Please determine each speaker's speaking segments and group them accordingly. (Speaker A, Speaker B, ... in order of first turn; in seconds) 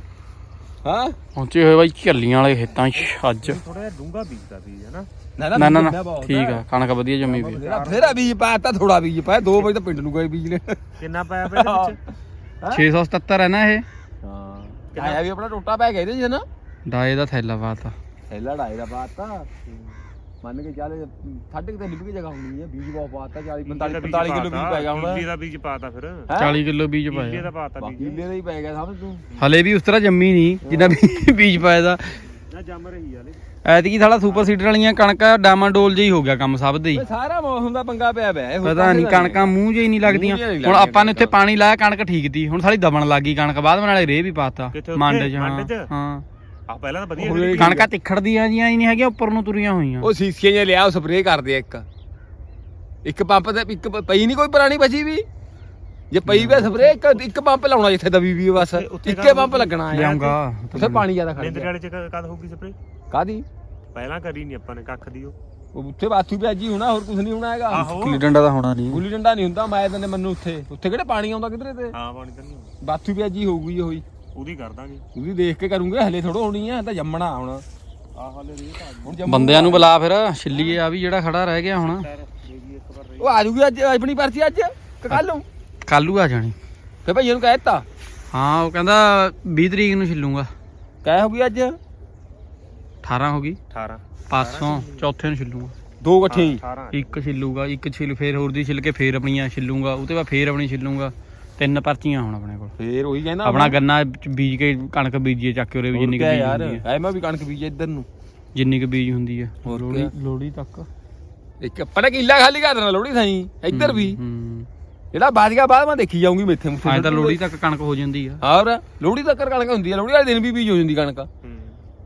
Speaker A: 0.8-1.2, 5.4-6.6, 7.2-10.8, 11.5-12.0, 14.2-16.4, 18.3-19.5, 20.4-25.2, 26.3-26.6, 27.8-29.2, 30.6-31.0, 36.9-41.3, 47.2-47.9, 50.0-51.9, 53.0-55.2, 56.1-61.7, 63.1-63.5, 65.7-67.9, 68.9-71.9, 72.8-74.0, 75.1-77.6, 79.0-79.9, 83.2-85.4, 87.0-87.8, 91.0-91.8, 96.0-96.6, 102.8-103.8, 105.9-108.1, 109.6-110.1, 111.6-114.2, 115.1-117.4, 118.4-121.3
Speaker B: 1.4-3.6, 5.5-7.6, 12.7-13.8, 16.9-17.9, 26.4-27.5, 29.4-32.2, 33.6-37.0, 38.6-46.2, 47.6-50.1, 56.2-56.7, 59.9-61.0, 67.7-69.0, 79.3-82.0, 85.9-86.5, 88.3-90.5, 93.0-93.6, 94.3-95.7, 96.9-102.7, 103.4-106.8, 108.5-110.9, 113.7-114.7, 116.8-118.4
Speaker C: 2.9-5.1, 7.5-8.3, 11.0-12.0, 14.9-15.2, 19.7-20.0, 23.6-26.3, 27.1-28.3, 32.3-33.4, 34.3-34.5, 44.7-45.9, 46.7-47.8, 56.8-57.2, 58.6-59.8, 61.4-62.8, 63.9-65.3, 67.7-68.2, 71.9-72.7, 74.3-75.0, 78.1-79.2, 80.5-80.8, 81.8-83.4, 93.7-95.0, 96.3-97.2, 121.4-121.8